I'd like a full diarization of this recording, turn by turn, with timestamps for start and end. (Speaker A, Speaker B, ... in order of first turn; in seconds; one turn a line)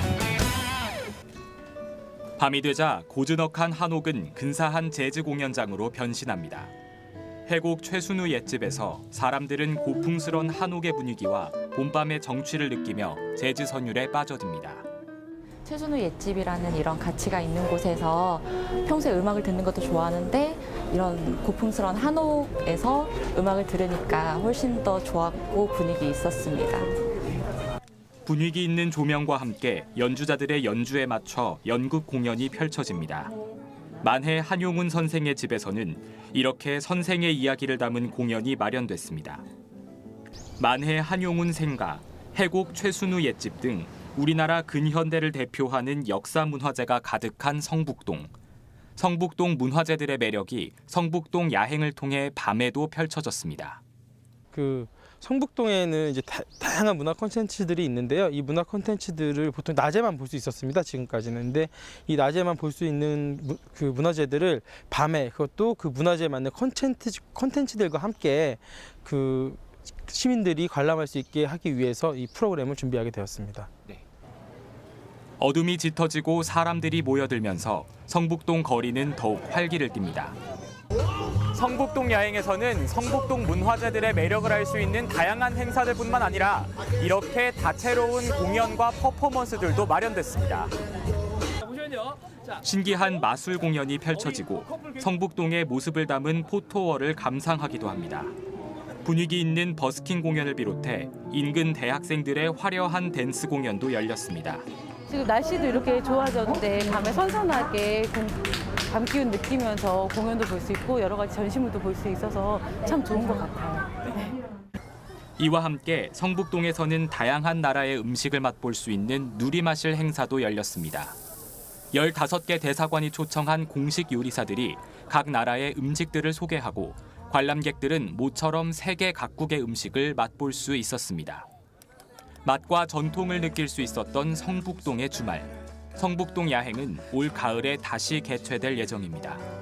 Speaker A: 2.4-6.7
Speaker A: 7.5-14.9
Speaker B: 15.6-26.9
Speaker A: 28.3-33.3
Speaker A: 34.0-39.5
Speaker A: 40.6-48.3
Speaker A: 49.0-53.8
Speaker C: 54.5-73.7
Speaker A: 75.4-80.4
Speaker A: 81.5-90.7
Speaker A: 92.6-98.3
Speaker A: 99.0-104.7
Speaker D: 105.1-113.9
Speaker A: 115.4-121.2
Speaker A: 121.9-131.5
Speaker A: 132.4-139.4